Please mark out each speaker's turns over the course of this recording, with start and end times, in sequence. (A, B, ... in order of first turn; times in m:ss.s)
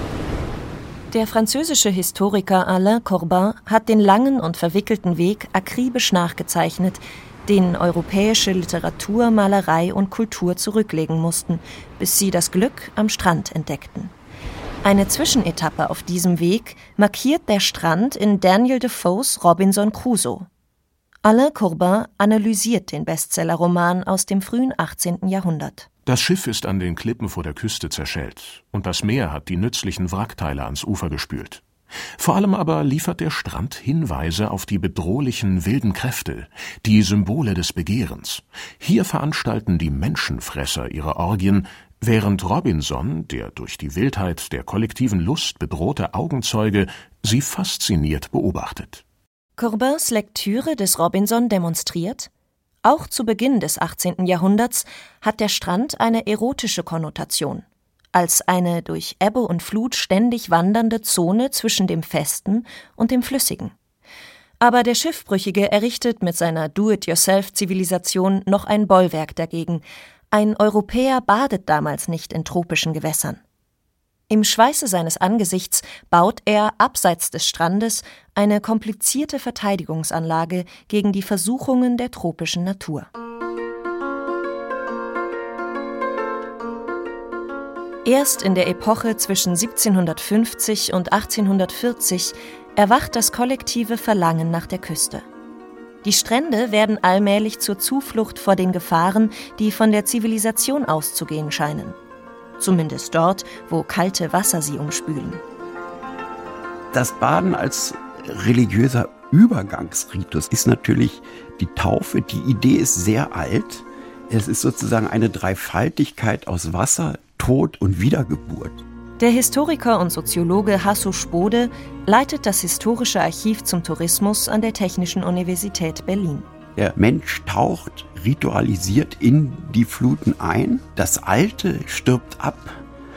0:01.1-0:14.1 A
0:14.8-0:20.5 A
0:21.2-0:25.9 A
0:26.1-0:31.6 B
0:32.2-0:49.0 B
0:49.6-0:52.3 A
0:52.8-1:03.7 A
1:04.6-1:13.4 A
1:14.3-1:23.1 A
1:28.0-1:35.2 A
1:36.0-1:42.0 A
1:42.6-1:45.4 A
1:46.9-1:58.8 C
1:59.2-2:06.5 A
2:06.8-2:12.8 C